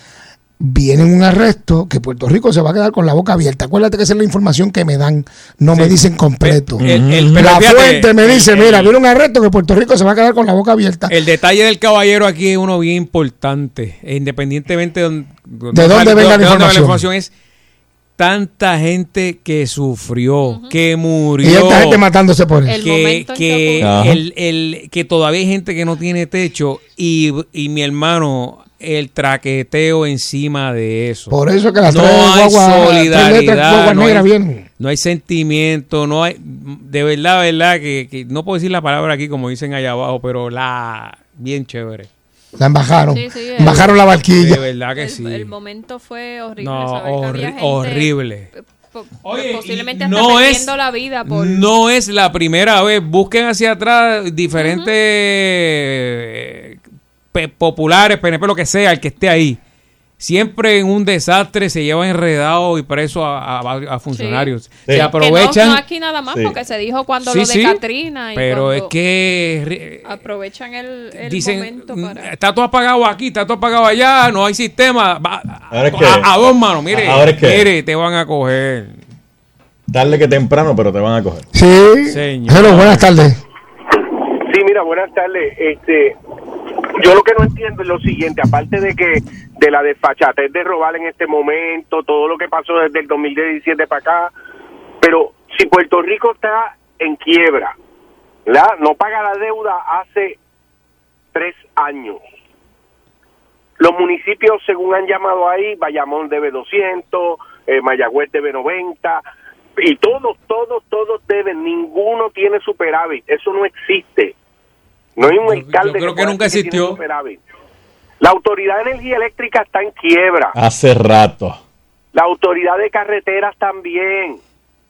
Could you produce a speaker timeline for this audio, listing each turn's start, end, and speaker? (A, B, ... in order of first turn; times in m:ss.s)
0:00.6-0:06.8 A
0:05.7-0:08.9 B
0:06.8-0:07.4 C
0:07.4-0:11.1 A
0:11.1-0:17.3 B
0:15.7-0:17.0 A
0:18.2-0:22.0 B
0:20.5-0:20.7 D
0:21.4-0:22.8 A
0:22.7-0:23.9 D
0:22.8-0:31.4 B
0:23.8-0:24.2 C
0:31.3-0:34.6 A
0:31.9-0:42.1 B
0:42.6-0:44.6 A
0:43.1-0:43.9 D
0:43.7-0:45.5 B
0:45.0-0:51.6 D
0:46.6-0:48.5 B
0:49.2-0:50.7 B
0:51.2-0:56.8 B
0:54.6-0:54.9 D
0:57.3-0:59.6 B
1:00.2-1:05.8 B
1:04.1-1:04.5 D
1:05.1-1:08.9 D
1:07.2-1:07.8 B
1:08.4-1:10.1 B
1:10.0-1:12.3 D
1:11.2-1:19.0 B
1:15.7-1:16.3 C
1:16.9-1:17.7 C
1:19.9-1:21.4 C
1:21.5-1:23.4 A
1:22.1-1:23.1 B
1:24.3-1:26.2 E
1:26.9-1:34.3 E
1:35.0-1:37.8 E
1:38.5-1:40.4 E
1:41.3-1:42.2 E
1:43.8-1:49.2 E
1:49.8-1:54.3 E
1:55.2-1:57.4 E
1:55.3-1:57.0 B
1:58.2-2:00.6 E
2:00.6-2:01.6 C
2:02.1-2:04.4 E